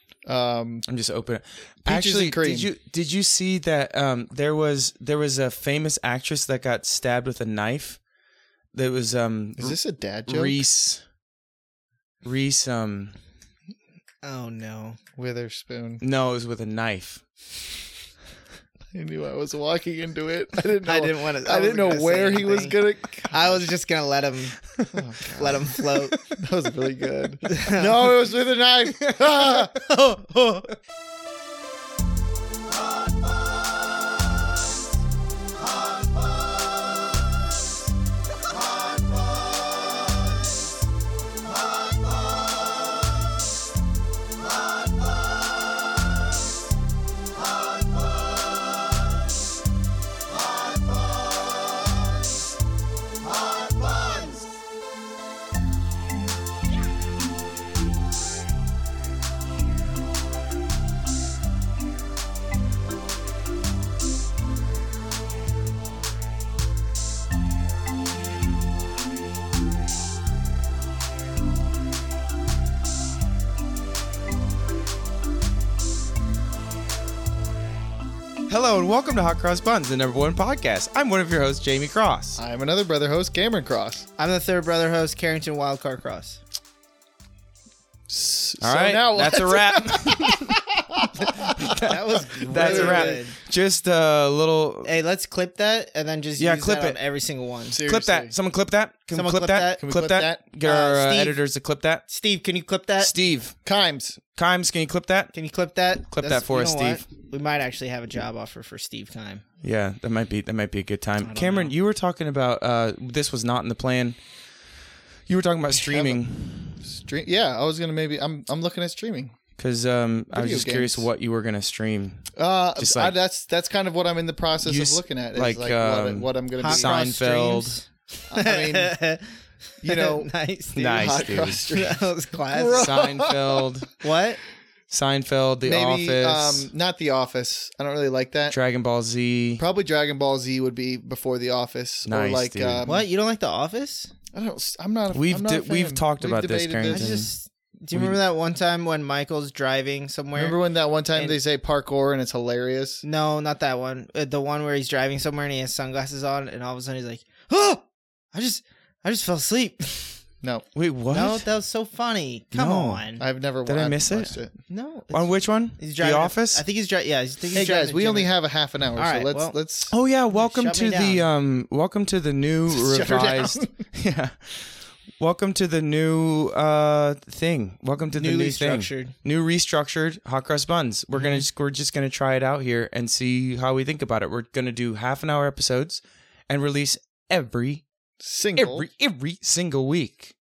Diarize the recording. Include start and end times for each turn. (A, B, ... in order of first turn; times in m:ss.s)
0:00.2-0:00.8 A
0:00.9-0:08.0 B
0:01.9-0:02.7 A
0:08.7-0:11.0 B
0:09.6-0:10.6 A
0:12.2-0:13.2 B
0:14.2-0:15.0 C
0:15.2-0:16.0 A
0:16.0-0:17.2 B
0:18.9-0:23.7 A
0:20.8-0:22.8 C
0:23.3-0:24.6 C
0:24.9-0:30.6 A
0:25.4-0:26.4 C
0:27.4-0:28.0 C
0:29.5-0:30.2 C
1:18.5-1:22.4 B
1:22.4-1:24.0 A
1:24.2-1:26.4 C
1:28.1-1:33.2 A
1:28.6-1:30.6 B
1:31.2-1:34.9 B
1:31.7-1:33.4 C
1:34.8-1:37.8 C
1:36.4-1:37.0 B
1:37.7-1:38.4 A
1:37.8-1:42.0 B
1:39.1-1:39.8 C
1:39.8-1:40.4 A
1:40.6-1:41.4 C
1:42.1-1:43.1 C
1:43.0-1:43.6 B
1:43.6-1:44.2 A
1:44.4-1:45.3 B
1:45.3-1:49.4 C
1:46.1-1:47.0 B
1:49.6-1:54.2 B
1:51.2-1:51.7 C
1:55.3-1:56.8 B
1:55.8-1:56.2 A
1:56.8-1:59.4 A
1:59.6-2:03.2 B
2:00.3-2:01.1 A
2:02.4-2:07.0 A
2:04.6-2:07.8 B
2:06.6-2:09.2 C
2:08.3-2:09.0 A
2:09.8-2:10.3 A
2:09.8-2:12.9 C
2:10.8-2:11.6 B
2:10.9-2:13.7 A
2:12.8-2:13.9 B
2:14.0-2:14.4 C
2:14.9-2:16.7 B
2:15.6-2:18.6 A
2:18.5-2:19.6 B
2:19.6-2:23.1 A
2:22.1-2:22.9 B
2:22.9-2:24.1 C
2:24.3-2:27.1 A
2:25.1-2:27.3 B
2:26.8-2:30.6 C
2:30.4-2:33.0 A
2:33.0-2:40.2 C
2:40.8-2:41.4 B
2:41.1-2:43.2 C
2:42.5-2:43.0 B
2:43.2-2:44.5 A
2:43.7-2:44.4 B
2:44.7-2:48.3 C
2:45.1-2:46.6 B
2:47.5-2:49.9 A
2:49.0-2:49.6 C
2:49.9-3:07.8 B
2:50.4-2:51.3 C
2:52.7-2:53.7 A
2:58.2-2:59.2 C
3:01.2-3:01.4 C
3:08.2-3:08.9 A
3:08.6-3:10.3 B